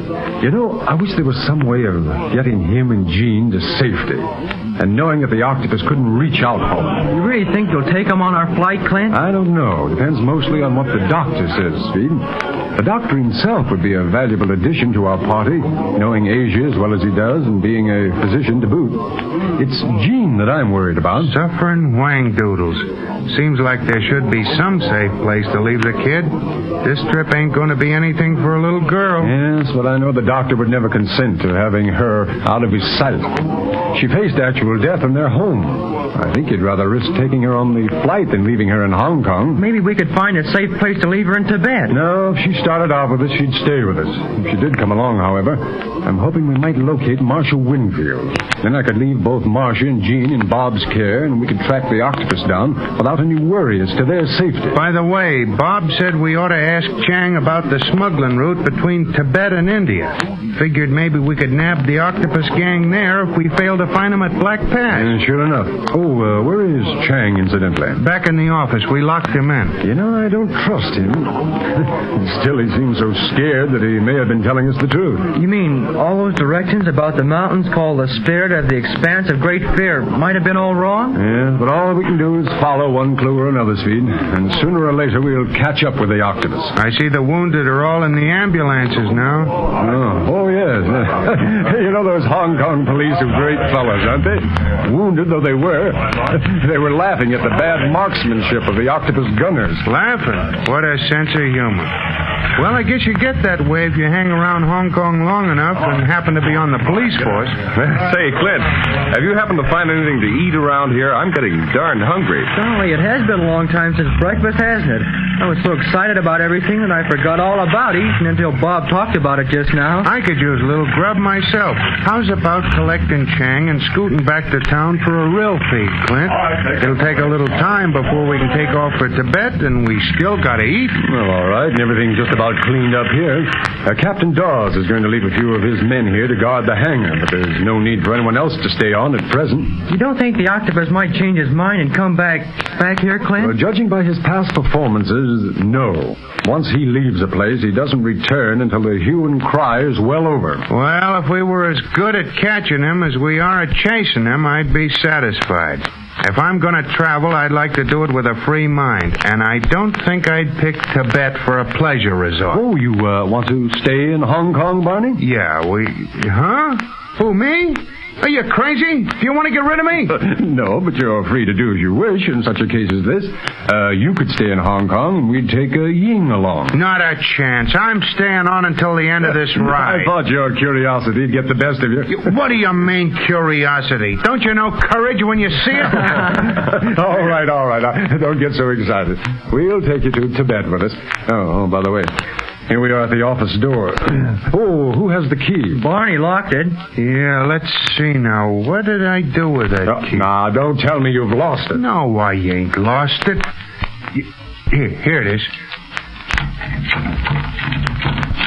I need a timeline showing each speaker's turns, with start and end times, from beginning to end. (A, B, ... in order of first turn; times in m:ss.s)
0:00.4-0:04.3 A
0:04.8-0:07.1 A
0:07.0-0:09.2 B
0:09.1-0:21.4 A
0:21.2-0:29.3 C
0:29.2-0:39.7 A
0:39.6-0:42.0 B
0:41.9-0:54.8 A
0:54.7-1:05.2 C
1:04.9-1:08.0 A
1:08.0-1:09.8 C
1:09.8-1:15.3 A
1:15.3-1:21.2 B
1:21.1-1:26.7 A
1:26.8-1:29.6 C
1:29.7-1:39.8 A
1:39.8-1:42.0 C
1:42.6-1:47.6 C
1:47.7-1:52.5 D
1:52.5-2:00.1 B
2:00.0-2:11.0 C
2:11.0-2:19.8 A
2:19.9-2:23.6 B
2:23.4-2:30.6 A
2:30.7-2:42.6 C
2:42.5-2:45.2 A
2:45.2-2:50.1 C
2:50.1-2:56.8 A
2:56.7-3:00.1 C
2:59.2-3:02.3 A
3:02.1-3:06.2 C
3:06.3-3:12.1 A
3:12.7-3:15.8 A
3:15.7-3:16.8 B
3:17.0-3:20.3 C
3:19.8-3:21.8 A
3:21.7-3:23.5 C
3:24.2-3:25.5 C